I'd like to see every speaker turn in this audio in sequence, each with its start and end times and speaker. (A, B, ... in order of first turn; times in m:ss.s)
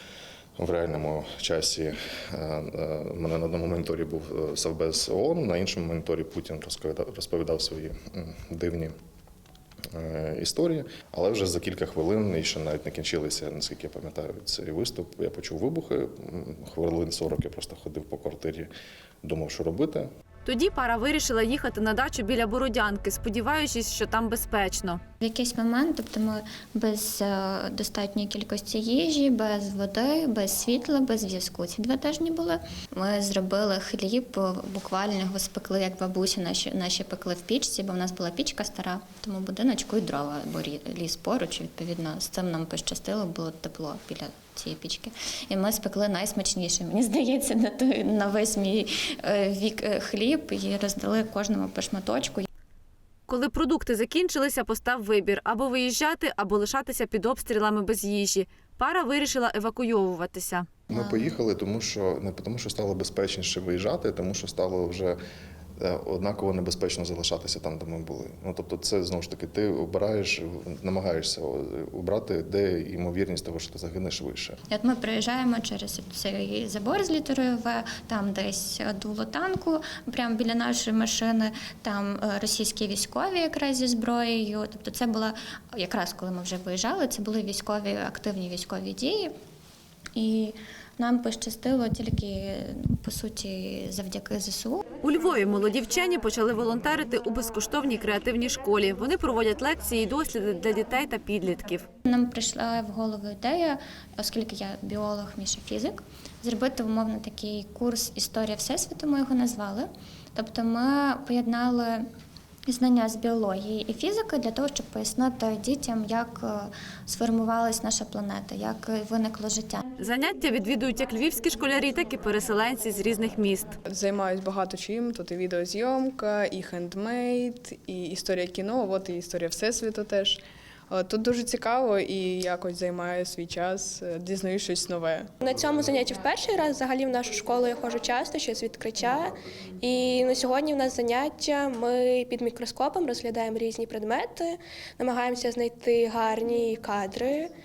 0:00.6-0:08.9 A
0:09.9-0:18.7 A
0:19.2-0:20.1 A
0:20.4-0:25.0 B
0:25.2-0:52.5 C
0:53.3-1:00.7 B
1:00.9-1:05.2 A
1:00.9-1:01.3 C
1:05.8-1:14.6 A
1:14.7-1:29.3 C
1:30.2-1:34.8 C
1:35.0-1:41.9 B
1:42.1-1:52.0 C
1:52.7-1:59.8 C
2:00.0-2:03.8 B
2:03.8-2:15.3 D
2:15.4-2:27.5 E